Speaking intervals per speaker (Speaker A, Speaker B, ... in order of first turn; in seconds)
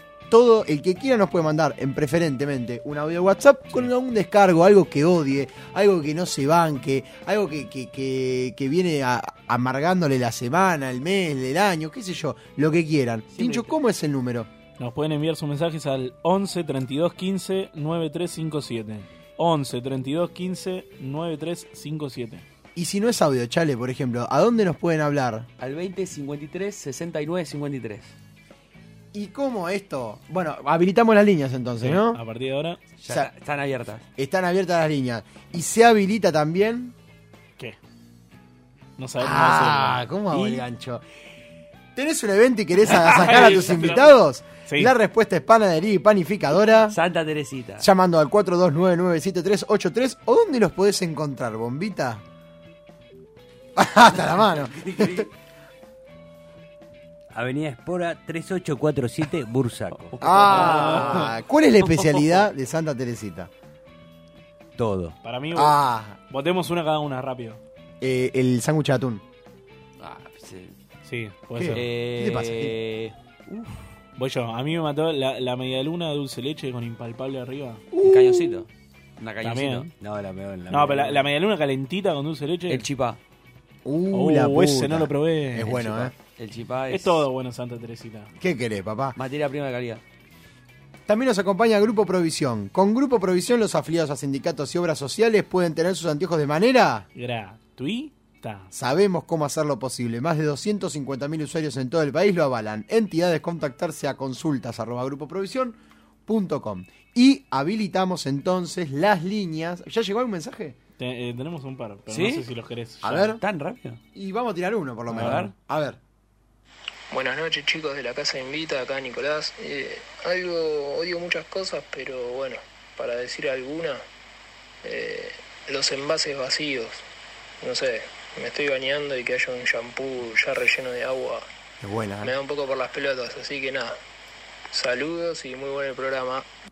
Speaker A: 0.3-14.5, 22.7-25.5, 29.1-32.2, 34.2-36.9, 39.2-41.0, 42.0-47.0, 47.8-52.2, 53.8-55.3, 60.2-63.5, 65.5-66.2, 68.0-69.2, 71.5-72.7, 77.9-78.6, 83.8-86.1, 88.4-89.2, 91.1-97.0, 98.7-110.8, 113.0-113.4, 114.1-116.0, 131.8-132.3
Speaker B: 13.4-13.7, 14.8-22.4, 31.8-32.8, 39.0-40.1, 42.9-44.1, 44.7-44.9, 60.3-61.3, 65.2-65.8, 66.3-67.6, 71.0-71.8, 74.2-77.8, 79.4-79.9, 80.7-82.8, 84.1-86.1, 86.9-88.3, 97.1-98.7, 111.0-113.3, 115.1-115.5
Speaker C: 25.6-28.1, 33.0-34.0, 46.9-47.9, 54.2-55.3, 60.3-61.2, 70.0-70.7, 71.7-73.6, 78.0-79.9, 82.7-83.2, 86.4-87.2, 89.2-90.0, 112.1-112.5, 113.4-114.0, 115.1-115.5
Speaker D: 57.3-60.1, 64.8-65.2, 80.0-81.3
Speaker E: 117.1-124.0, 124.8-127.0, 127.6-131.4, 132.2-134.0, 134.7-136.4